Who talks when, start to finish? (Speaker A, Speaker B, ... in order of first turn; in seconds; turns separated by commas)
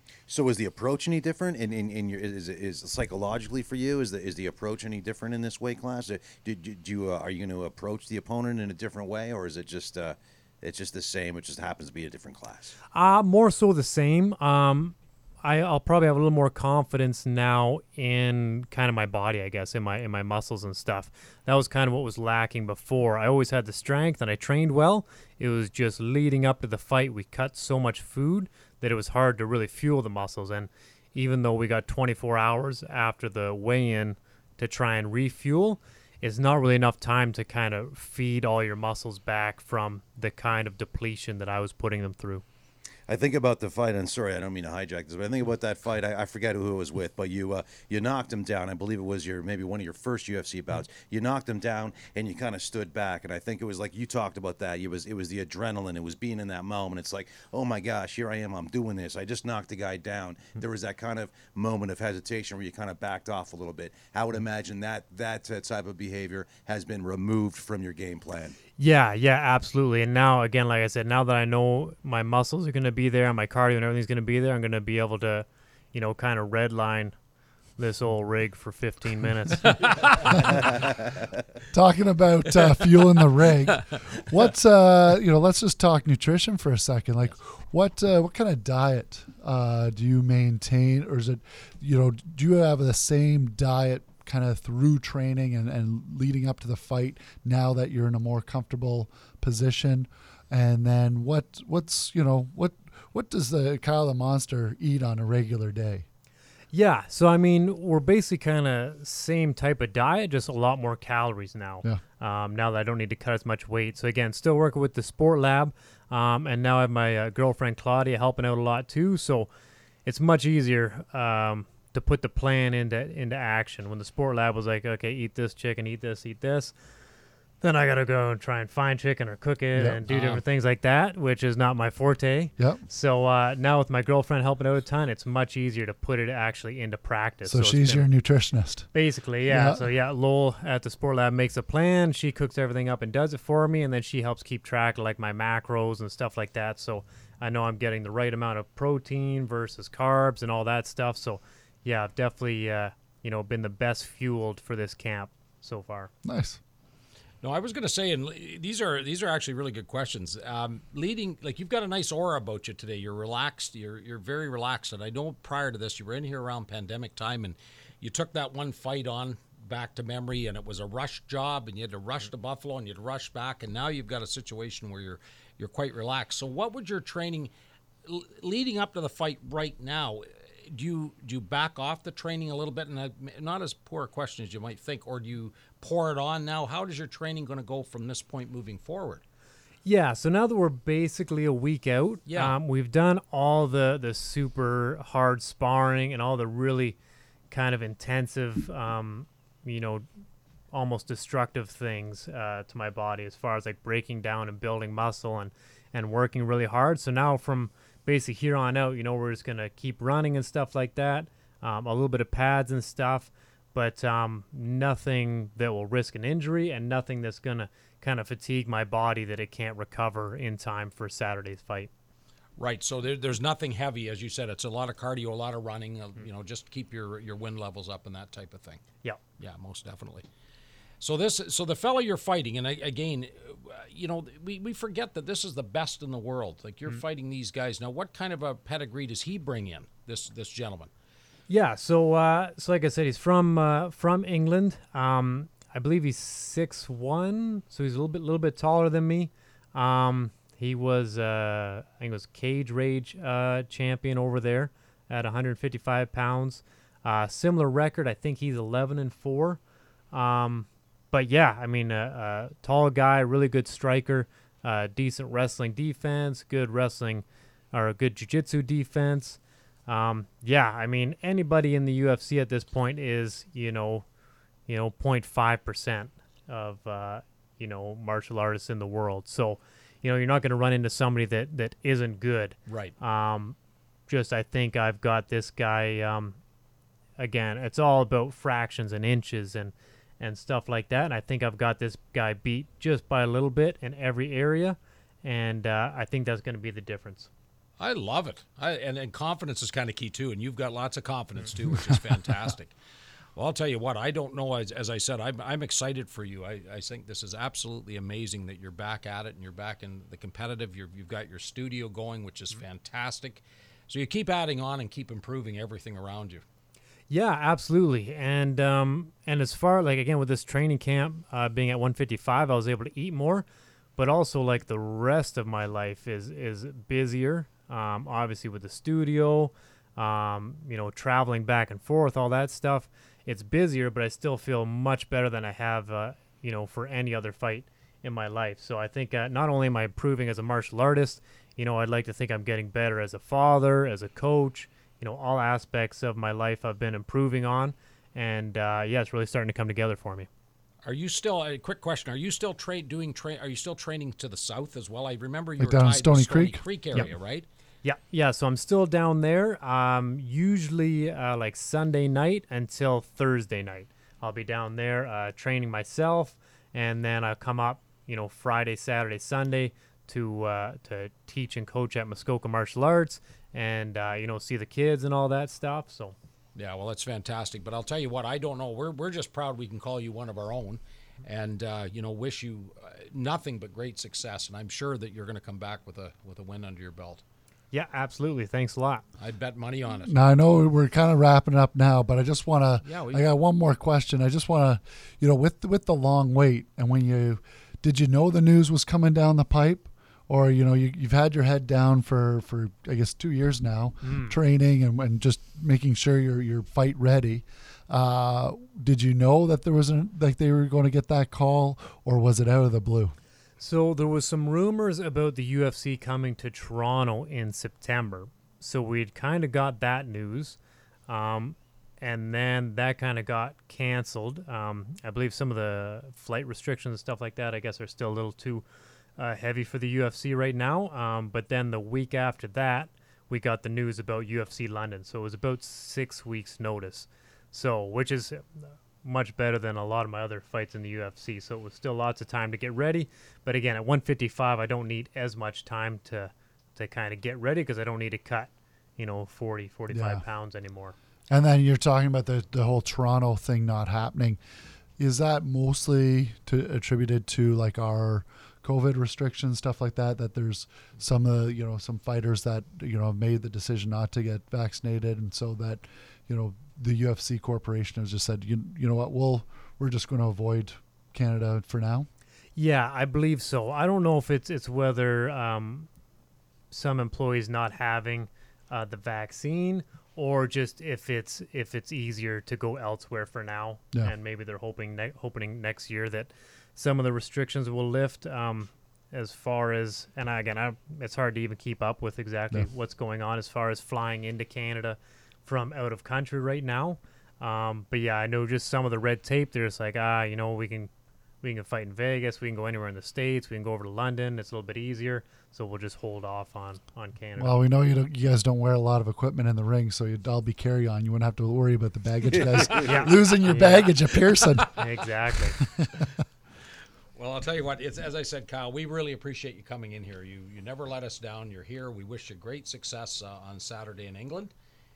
Speaker A: 0.3-12.7, Speaker B: 12.9-42.4, Speaker A: 43.1-68.6, Speaker B: 68.8-77.1, Speaker B: 77.8-80.4, Speaker C: 81.7-106.0, Speaker B: 106.7-119.5, Speaker B: 120.0-126.7, Speaker B: 127.6-138.1, Speaker C: 129.7-130.0, Speaker D: 130.1-130.4, Speaker C: 137.4-138.9, Speaker B: 138.9-156.1, Speaker C: 139.5-139.8, Speaker C: 156.2-156.6, Speaker D: 157.4-177.5, Speaker D: 178.1-189.2, Speaker B: 189.8-197.0, Speaker D: 192.3-192.5, Speaker B: 197.5-200.0, Speaker B: 200.7-221.9, Speaker D: 222.6-228.8, Speaker D: 229.4-230.2, Speaker D: 231.0-240.9, Speaker B: 241.5-259.6, Speaker B: 260.1-274.1, Speaker B: 274.7-283.6, Speaker D: 282.7-282.9, Speaker B: 284.1-286.4, Speaker B: 287.2-297.3, Speaker D: 297.8-302.7, Speaker D: 303.4-316.4, Speaker B: 317.1-323.4, Speaker B: 323.9-350.3, Speaker D: 350.8-357.4, Speaker C: 355.6-356.6, Speaker B: 357.8-376.1, Speaker D: 376.5-387.2, Speaker B: 387.7-389.0, Speaker D: 389.2-390.1, Speaker C: 390.0-413.1, Speaker D: 392.8-393.3, Speaker B: 404.0-404.4, Speaker B: 413.6-420.6, Speaker B: 421.1-428.6, Speaker B: 429.2-450.9, Speaker C: 449.9-450.2, Speaker C: 451.3-454.4, Speaker C: 455.0-472.1, Speaker B: 472.6-475.9, Speaker B: 476.7-500.9, Speaker B: 501.4-507.6, Speaker C: 507.4-514.7, Speaker D: 512.7-513.0, Speaker B: 512.8-513.9, Speaker B: 514.7-515.6, Speaker C: 515.8-516.0, Speaker D: 517.1-524.5